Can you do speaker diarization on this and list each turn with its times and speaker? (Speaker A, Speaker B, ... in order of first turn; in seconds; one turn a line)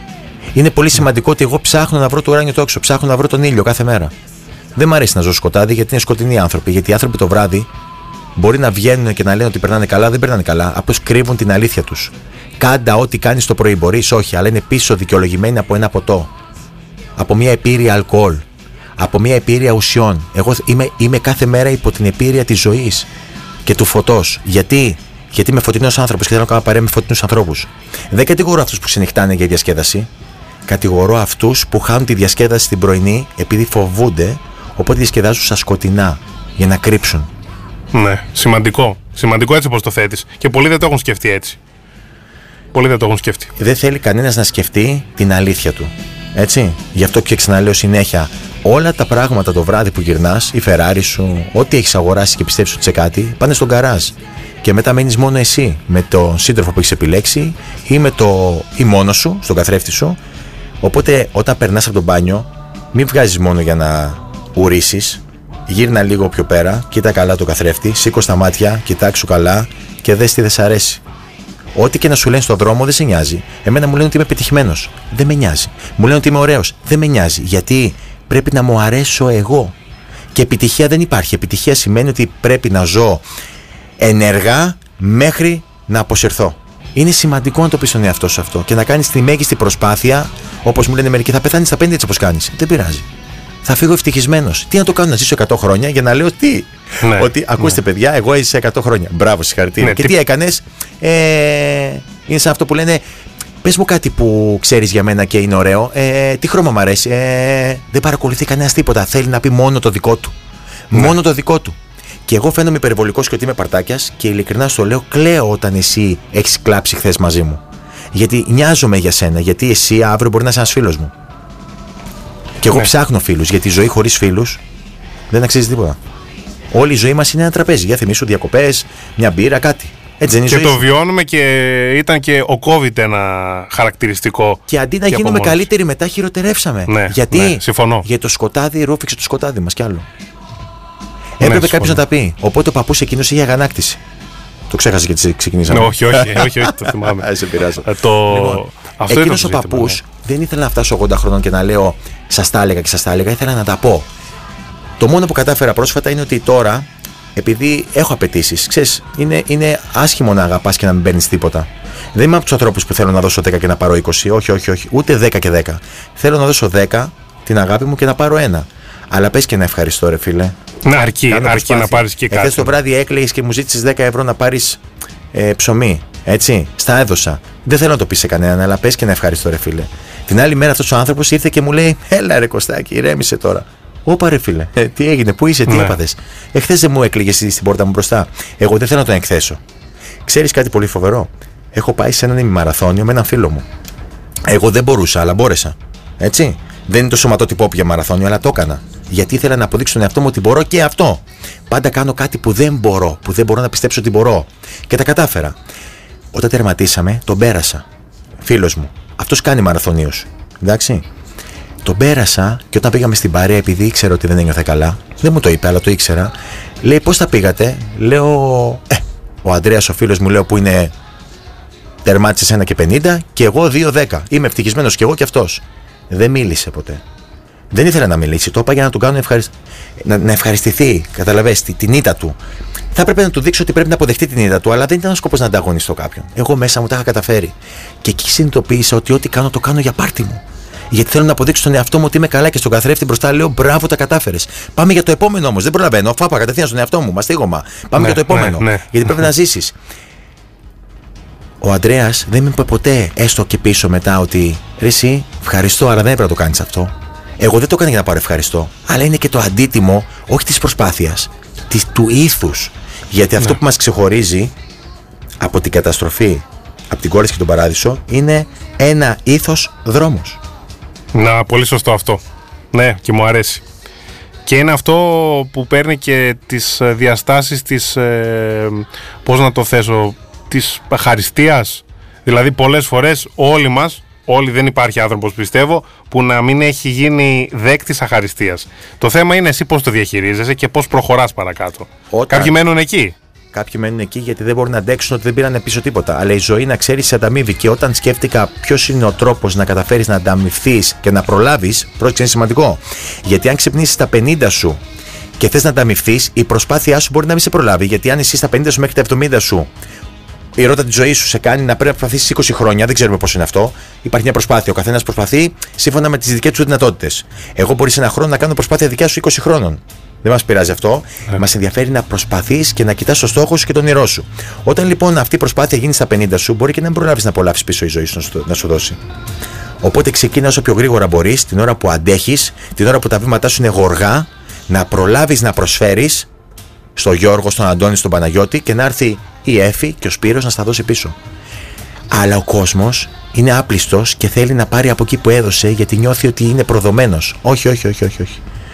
Speaker A: 0.5-4.1
Speaker A: 4.8-7.7
Speaker A: 8.3-16.3
Speaker A: 17.2-18.4
Speaker A: 19.0-23.1
Speaker A: 23.6-30.1
Speaker A: 30.7-37.3
Speaker B: 37.9-41.6
Speaker B: 42.7-43.5
Speaker A: 43.6-60.2
Speaker A: 60.8-71.0
Speaker A: 71.7-79.7
Speaker A: 80.3-83.2
Speaker A: 84.0-93.0
Speaker A: 93.6-103.0
Speaker B: 97.0-97.7
Speaker B: 99.8-100.1
Speaker A: 103.6-110.3
Speaker A: 110.9-121.1
Speaker A: 122.6-124.6
Speaker A: 125.3-126.0
Speaker A: 126.7-130.8
Speaker B: 130.5-135.7
Speaker A: 134.7-140.1
Speaker B: 136.9-138.1
Speaker A: 141.4-144.0
Speaker B: 141.4-142.0
Speaker A: 144.7-154.1
Speaker B: 145.7-147.3
Speaker B: 147.8-150.0
Speaker A: 155.0-170.5
Speaker B: 170.8-172.8
Speaker A: 171.3-174.8
Speaker A: 175.3-189.6
Speaker B: 185.7-186.0
Speaker A: 190.2-193.7
Speaker A: 194.5-205.6
Speaker A: 206.3-207.8
Speaker A: 208.4-211.0
Speaker A: 211.8-220.9
Speaker A: 222.0-227.0
Speaker A: 227.7-232.4
Speaker A: 232.9-249.7
Speaker B: 248.0-248.9
Speaker A: 251.6-264.5
Speaker A: 265.4-270.4
Speaker B: 271.1-273.6
Speaker B: 274.4-293.1
Speaker A: 292.1-292.6
Speaker A: 293.5-304.8
Speaker A: 305.4-309.7
Speaker A: 310.6-329.0
Speaker A: 329.8-336.3
Speaker A: 336.9-341.1
Speaker A: 342.1-348.4